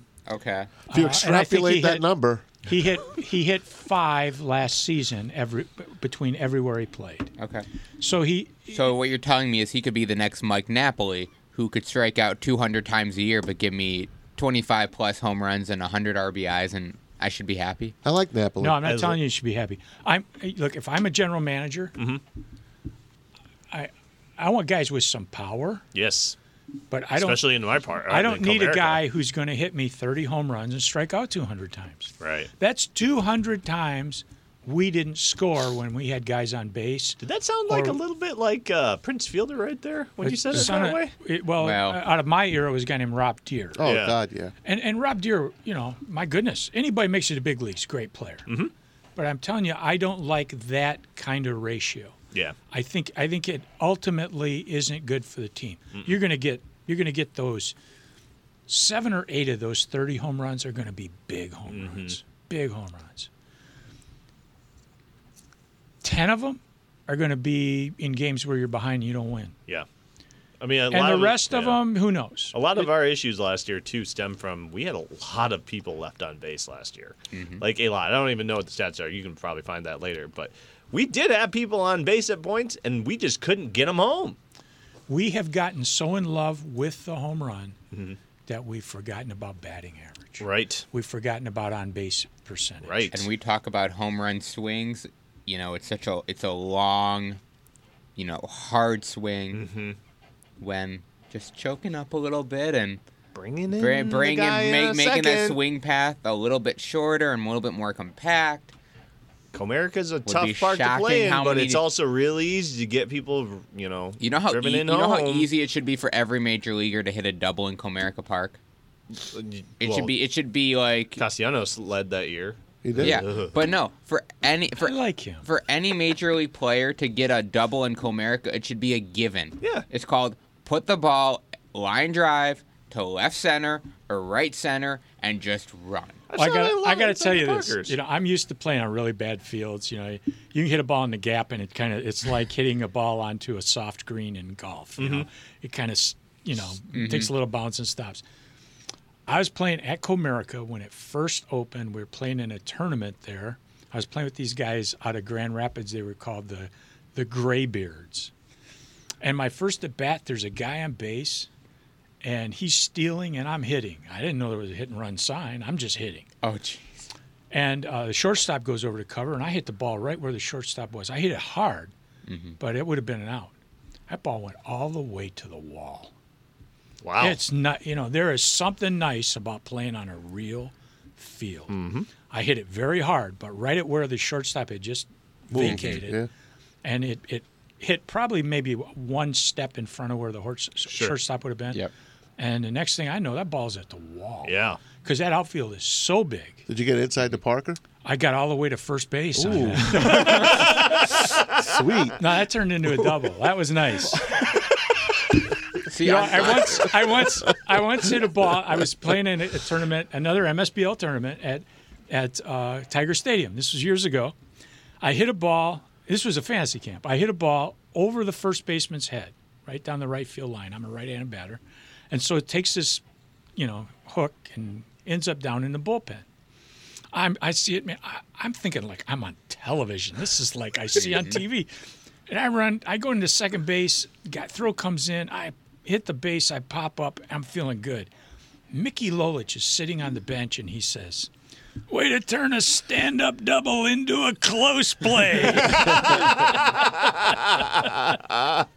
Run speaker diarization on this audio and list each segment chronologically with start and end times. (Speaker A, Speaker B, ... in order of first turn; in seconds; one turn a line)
Speaker A: 0.3-0.7
Speaker B: 0.9-2.1
Speaker C: 0.9-2.5
Speaker B: 2.6-7.3
Speaker A: 7.4-7.7
Speaker B: 8.0-8.8
Speaker A: 8.7-17.9
Speaker C: 18.0-18.9
Speaker B: 18.6-22.0
Speaker D: 18.8-19.2
Speaker B: 23.7-25.8
Speaker D: 25.9-26.4
Speaker B: 26.9-38.0
Speaker D: 27.1-29.0
Speaker D: 32.2-32.5
Speaker D: 37.2-41.1
Speaker B: 40.2-43.9
Speaker A: 41.6-42.0
Speaker C: 43.8-44.5
Speaker D: 43.8-44.2
Speaker B: 44.6-48.5
Speaker D: 48.5-48.7
Speaker B: 49.2-52.1
Speaker B: 52.7-57.8
Speaker B: 58.7-63.3
Speaker D: 61.7-62.2
Speaker B: 66.0-69.5
Speaker D: 70.6-71.8
Speaker B: 70.9-72.9
Speaker D: 72.5-84.4
Speaker A: 77.3-77.6
Speaker B: 85.1-87.8
Speaker D: 87.9-88.2
Speaker B: 88.5-93.1
Speaker D: 90.4-90.8
Speaker D: 92.8-93.3
Speaker A: 93.1-97.4
Speaker A: 98.2-99.7
Speaker D: 99.5-100.0
Speaker A: 100.6-103.0
Speaker D: 103.3-105.6
Speaker A: 103.8-108.7
Speaker D: 109.5-115.5
Speaker A: 110.3-111.8
Speaker A: 114.2-118.6
Speaker D: 119.1-120.1
Speaker A: 119.8-121.2
Speaker D: 121.2-123.5
Speaker C: 122.8-123.2
Speaker A: 123.0-136.2
Speaker B: 124.8-125.5
Speaker D: 129.6-129.9
Speaker D: 136.3-138.0
Speaker B: 136.3-148.2
Speaker D: 145.0-145.3
Speaker A: 146.9-147.3
Speaker B: 149.3-158.3
Speaker B: 159.2-161.5
Speaker B: 162.2-166.3
Speaker A: 166.4-167.1
Speaker B: 167.5-171.9
Speaker A: 172.3-172.6
Speaker B: 172.6-173.5
Speaker B: 174.1-176.1
Speaker D: 177.0-177.4
Speaker B: 177.2-186.2
Speaker D: 181.7-182.1
Speaker C: 185.5-186.3
Speaker B: 186.8-191.8
Speaker D: 190.9-191.2
Speaker B: 192.4-196.7
Speaker D: 194.4-194.8
Speaker C: 196.7-197.8
Speaker B: 198.0-201.0
Speaker C: 199.4-200.6
Speaker C: 201.6-202.2
Speaker B: 202.2-204.3
Speaker A: 205.8-206.9
Speaker B: 206.0-214.4
Speaker B: 215.0-223.0
Speaker B: 223.6-226.2
Speaker B: 227.1-231.7
Speaker A: 231.0-231.4
Speaker B: 232.3-238.1
Speaker B: 238.7-241.3
Speaker B: 241.9-246.6
Speaker D: 245.6-248.6